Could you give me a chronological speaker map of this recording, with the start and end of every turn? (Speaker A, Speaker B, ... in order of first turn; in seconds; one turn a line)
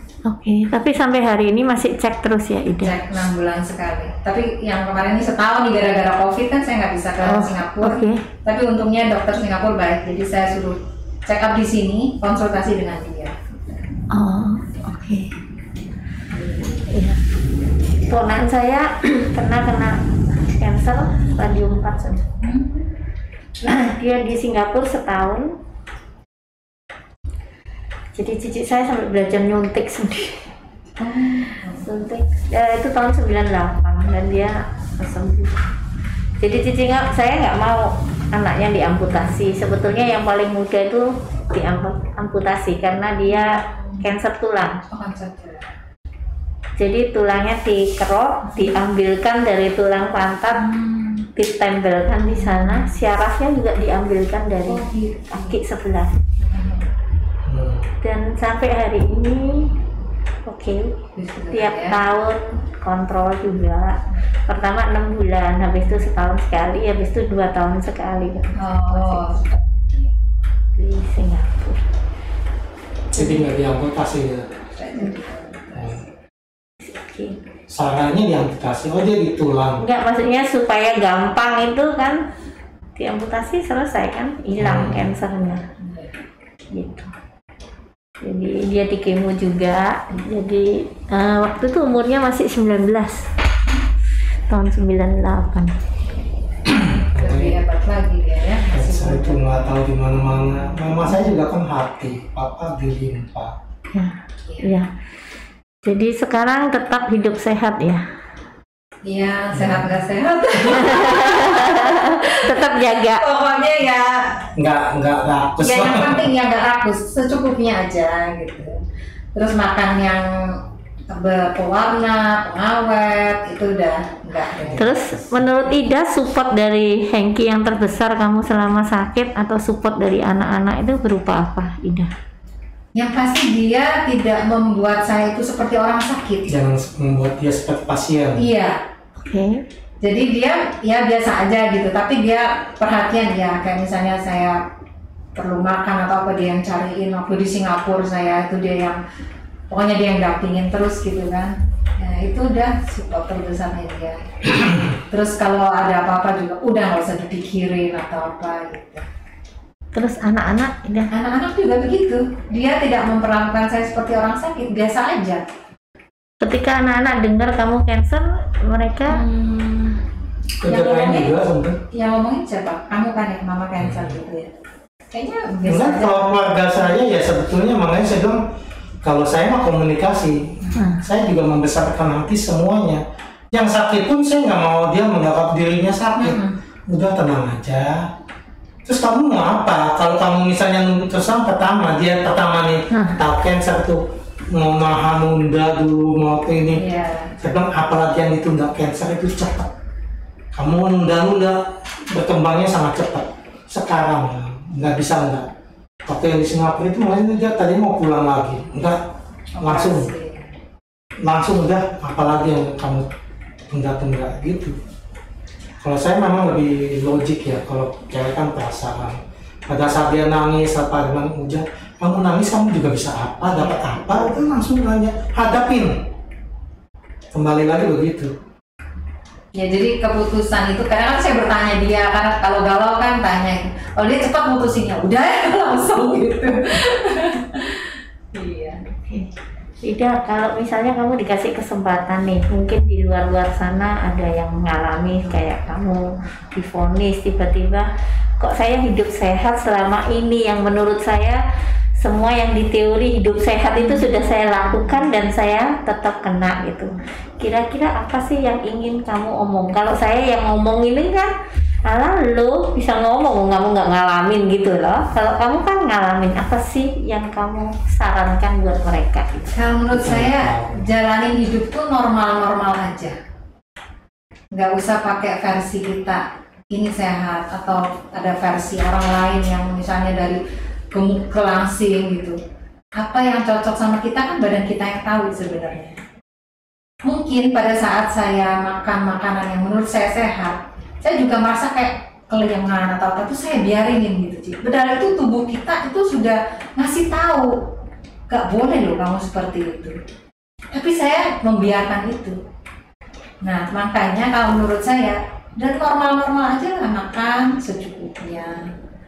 Speaker A: 0.2-3.2
Speaker B: 2.8-13.8
Speaker A: 7.2-8.2
Speaker A: 14.1-15.3
Speaker B: 16.3-16.9
Speaker A: 16.9-17.2
Speaker A: 18.1-22.2
Speaker B: 22.4-22.9
Speaker A: 23.6-25.6
Speaker A: 28.1-30.5
Speaker B: 31.0-31.9
Speaker A: 31.7-35.6
Speaker A: 36.4-44.8
Speaker B: 43.2-44.0
Speaker B: 44.9-45.7
Speaker A: 46.8-50.6
Speaker B: 50.5-51.3
Speaker A: 51.3-56.2
Speaker B: 52.4-52.9
Speaker B: 54.6-55.5
Speaker B: 56.4-56.9
Speaker C: 57.4-57.9
Speaker A: 58.0-59.7
Speaker A: 60.5-61.0
Speaker B: 61.1-62.0
Speaker A: 61.5-69.4
Speaker B: 68.5-70.1
Speaker A: 70.8-71.9
Speaker C: 73.1-74.6
Speaker B: 74.7-75.8
Speaker C: 75.7-76.0
Speaker A: 76.8-77.4
Speaker C: 77.7-79.9
Speaker A: 79.8-82.2
Speaker A: 83.0-85.6
Speaker C: 84.6-85.1
Speaker B: 85.8-86.1
Speaker A: 86.7-87.1
Speaker A: 88.2-93.3
Speaker A: 94.5-95.7
Speaker C: 96.6-97.6
Speaker B: 96.9-99.7
Speaker C: 98.7-103.6
Speaker A: 103.9-104.9
Speaker B: 104.4-104.7
Speaker A: 105.8-108.0
Speaker B: 109.0-112.6
Speaker C: 109.5-109.8
Speaker A: 110.7-113.2
Speaker B: 113.2-114.5
Speaker C: 114.5-116.2
Speaker B: 115.6-118.8
Speaker B: 119.3-124.9
Speaker C: 124.6-125.5
Speaker A: 124.8-132.1
Speaker B: 132.9-136.5
Speaker C: 136.5-138.4
Speaker B: 138.4-138.8
Speaker A: 139.2-139.6
Speaker B: 140.0-144.6
Speaker B: 145.3-149.0
Speaker B: 149.7-159.1
Speaker A: 159.9-161.1
Speaker B: 161.1-165.4
Speaker A: 166.4-169.2
Speaker B: 169.1-170.0
Speaker C: 170.6-171.8
Speaker B: 170.7-171.3
Speaker B: 171.9-174.5
Speaker C: 173.8-174.1
Speaker B: 175.1-176.7
Speaker C: 175.7-178.4
Speaker C: 179.0-188.1
Speaker A: 180.7-181.0
Speaker B: 186.2-186.5
Speaker C: 188.8-196.9
Speaker A: 192.9-193.2
Speaker B: 196.7-197.3
Speaker C: 197.4-199.7
Speaker C: 200.5-205.5
Speaker C: 206.1-209.0
Speaker B: 209.6-210.5
Speaker C: 209.6-210.1
Speaker C: 211.2-213.1
Speaker C: 213.7-214.8
Speaker C: 215.8-226.1
Speaker B: 223.6-224.5
Speaker C: 227.3-228.3
Speaker B: 229.5-238.8
Speaker A: 238.9-239.3
Speaker A: 239.8-251.4
Speaker A: 252.0-261.3
Speaker B: 253.8-254.1
Speaker B: 254.7-255.1
Speaker A: 261.9-269.5
Speaker B: 269.5-273.2
Speaker C: 269.9-270.9
Speaker B: 274.5-282.4
Speaker B: 282.9-286.0
Speaker B: 287.0-297.7
Speaker B: 298.3-300.0
Speaker B: 300.7-302.4
Speaker B: 303.4-308.7